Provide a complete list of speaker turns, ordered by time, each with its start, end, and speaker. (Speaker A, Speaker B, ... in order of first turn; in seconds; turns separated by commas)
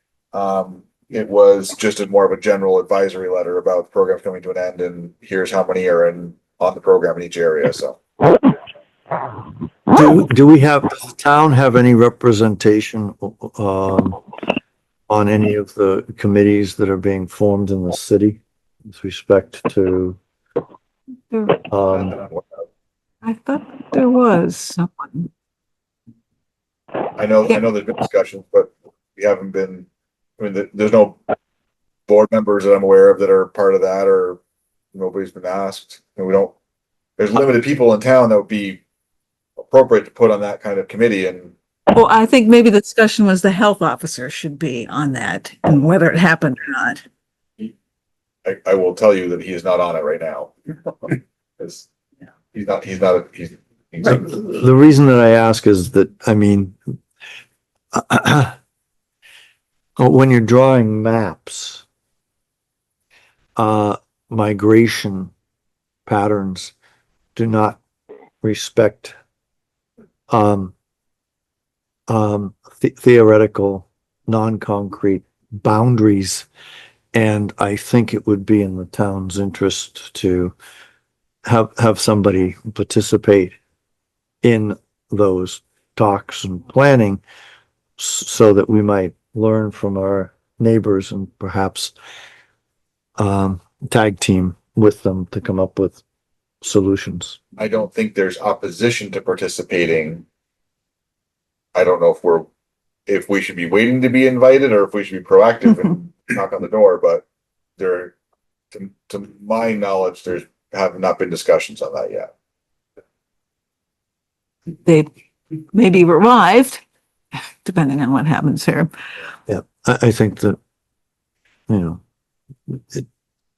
Speaker A: 0.3-8.0, Speaker B: 9.9-14.2, Speaker B: 15.1-20.2, Speaker C: 21.3-21.6, Speaker B: 21.7-22.1, Speaker A: 21.9-22.6, Speaker C: 23.2-25.3, Speaker A: 27.2-29.9, Speaker A: 30.4-31.2, Speaker A: 32.1-34.4, Speaker A: 34.9-36.5, Speaker A: 37.2-38.8, Speaker A: 39.6-41.5, Speaker C: 41.9-47.0, Speaker A: 48.4-50.5, Speaker A: 51.1-51.9, Speaker A: 52.5-54.3, Speaker B: 54.0-56.8, Speaker B: 57.9-58.5, Speaker B: 60.0-61.8, Speaker B: 63.5-65.3, Speaker B: 66.0-66.7, Speaker B: 67.3-67.8, Speaker B: 68.4-69.2, Speaker B: 70.3-70.7, Speaker B: 72.1-76.5, Speaker B: 77.1-80.5, Speaker B: 81.4-83.6, Speaker B: 84.4-87.2, Speaker B: 88.0-91.9, Speaker B: 93.2-96.0, Speaker B: 96.6-97.4, Speaker A: 97.6-100.2, Speaker A: 101.7-102.5, Speaker A: 103.1-107.2, Speaker A: 107.8-108.1, Speaker A: 108.7-112.3, Speaker C: 115.6-116.8, Speaker C: 117.6-118.9, Speaker B: 119.5-120.6, Speaker B: 121.7-122.0, Speaker B: 122.7-123.0